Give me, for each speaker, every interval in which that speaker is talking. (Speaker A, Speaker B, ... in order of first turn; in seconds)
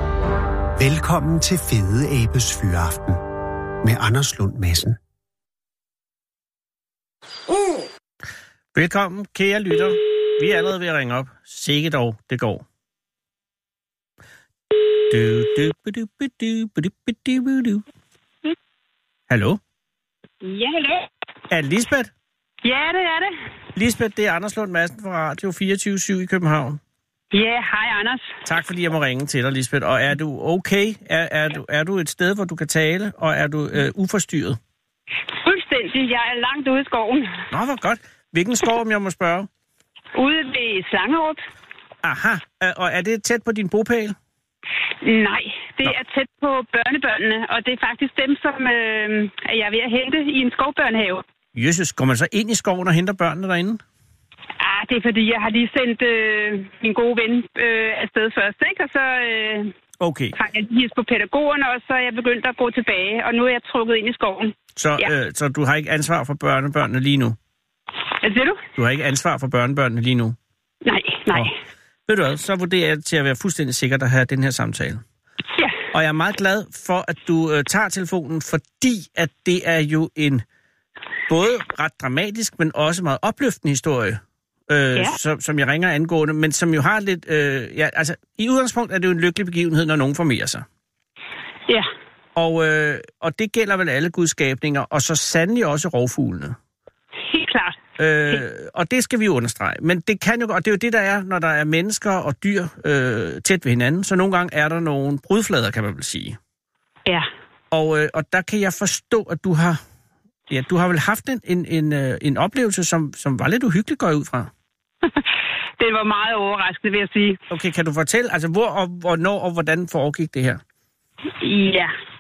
Speaker A: 0.8-3.2, 3.8-5.0
Speaker B: 8.7-12.7, 15.1-17.9, 19.3-19.6, 21.5-22.1, 23.8-26.8, 28.4-34.6, 37.5-39.5, 42.0-44.2, 51.5-53.8, 60.0-60.4, 64.8-67.4, 68.8-70.4, 72.1-75.0, 75.9-80.5, 81.3-90.7, 92.4-96.6, 98.0-106.4, 107.7-109.8, 110.5-114.5, 117.5-120.6
Speaker C: 20.4-21.1, 22.6-23.3, 27.3-28.3, 35.4-37.4, 40.1-41.4, 45.0-51.2, 54.6-59.7, 60.4-65.1, 68.2-68.6, 70.8-71.5, 97.3-97.8, 115.8-117.4, 121.4-121.9